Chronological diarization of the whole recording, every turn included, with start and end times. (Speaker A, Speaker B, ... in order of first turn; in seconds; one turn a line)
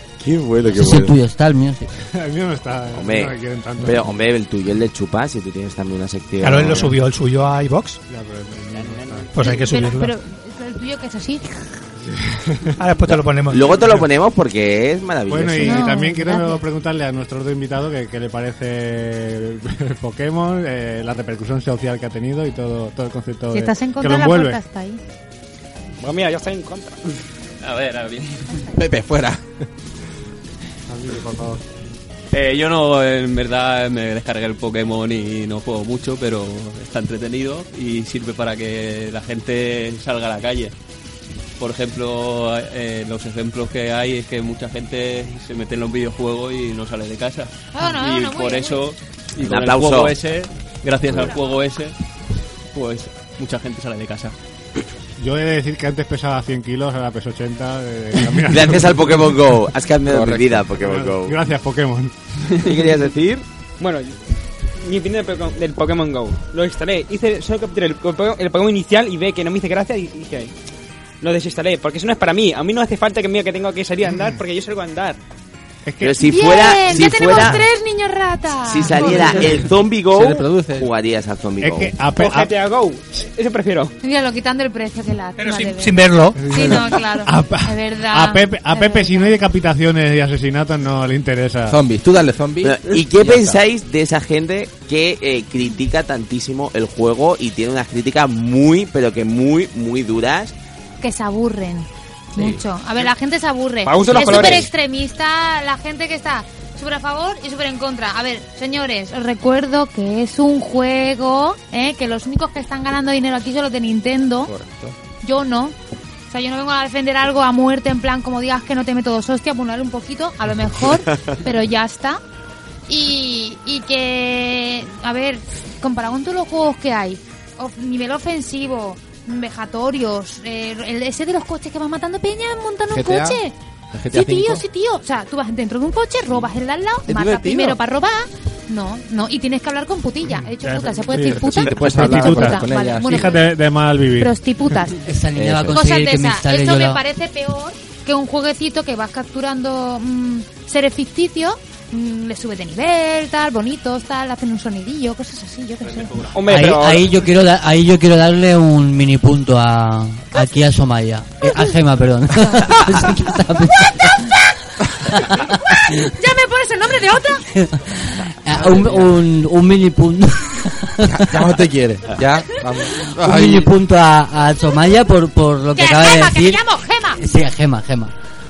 Speaker A: 0.2-1.1
Speaker B: 0.7-1.9
Speaker C: 2.1-4.0
Speaker A: 2.9-6.9
Speaker D: 6.4-8.0
Speaker C: 8.1-9.3
Speaker E: 8.7-9.3
Speaker D: 9.3-10.1
Speaker F: 9.4-11.7
Speaker C: 12.0-12.8
Speaker D: 12.8-13.8
Speaker A: 13.5-15.8
Speaker C: 15.3-24.6
Speaker F: 15.6-16.6
Speaker F: 23.5-25.0
Speaker E: 26.0-27.1
Speaker G: 27.6-28.6
Speaker H: 28.7-29.4
Speaker C: 30.9-31.6
Speaker G: 32.3-40.7
Speaker G: 41.6-51.9
Speaker F: 47.7-48.9
Speaker A: 49.4-50.1
Speaker G: 52.7-54.3
Speaker C: 55.2-59.0
Speaker A: 58.5-61.4
Speaker H: 60.1-60.7
Speaker C: 60.8-62.1
Speaker A: 62.6-63.4
Speaker E: 63.8-64.2
Speaker E: 64.8-70.5
Speaker E: 71.2-75.2
Speaker C: 74.1-74.3
Speaker C: 75.8-77.4
Speaker A: 76.0-77.7
Speaker F: 76.2-79.5
Speaker A: 78.7-81.9
Speaker H: 80.1-80.9
Speaker C: 81.6-82.5
Speaker E: 82.1-83.9
Speaker F: 84.0-89.4
Speaker D: 85.4-86.5
Speaker C: 86.3-91.8
Speaker H: 91.7-93.6
Speaker A: 92.6-100.5
Speaker F: 101.0-114.5
Speaker H: 102.3-102.6
Speaker E: 103.8-104.7
Speaker H: 104.1-104.6
Speaker H: 114.5-115.0
Speaker F: 115.2-115.7
Speaker F: 116.3-122.2
Speaker F: 122.9-133.5
Speaker H: 132.9-133.4
Speaker H: 133.9-134.6
Speaker F: 134.1-143.5
Speaker H: 137.1-137.8
Speaker C: 140.2-144.3
Speaker H: 141.1-143.4
Speaker F: 144.2-145.0
Speaker B: 145.0-147.0
Speaker H: 145.3-145.8
Speaker F: 145.7-156.3
Speaker G: 155.8-156.4
Speaker E: 156.3-157.1
Speaker B: 156.5-164.3
Speaker B: 165.1-165.8
Speaker F: 165.7-167.4
Speaker B: 167.5-171.5
Speaker H: 168.5-169.1
Speaker H: 171.1-173.7
Speaker B: 173.2-176.6
Speaker F: 175.8-177.2
Speaker B: 177.2-178.1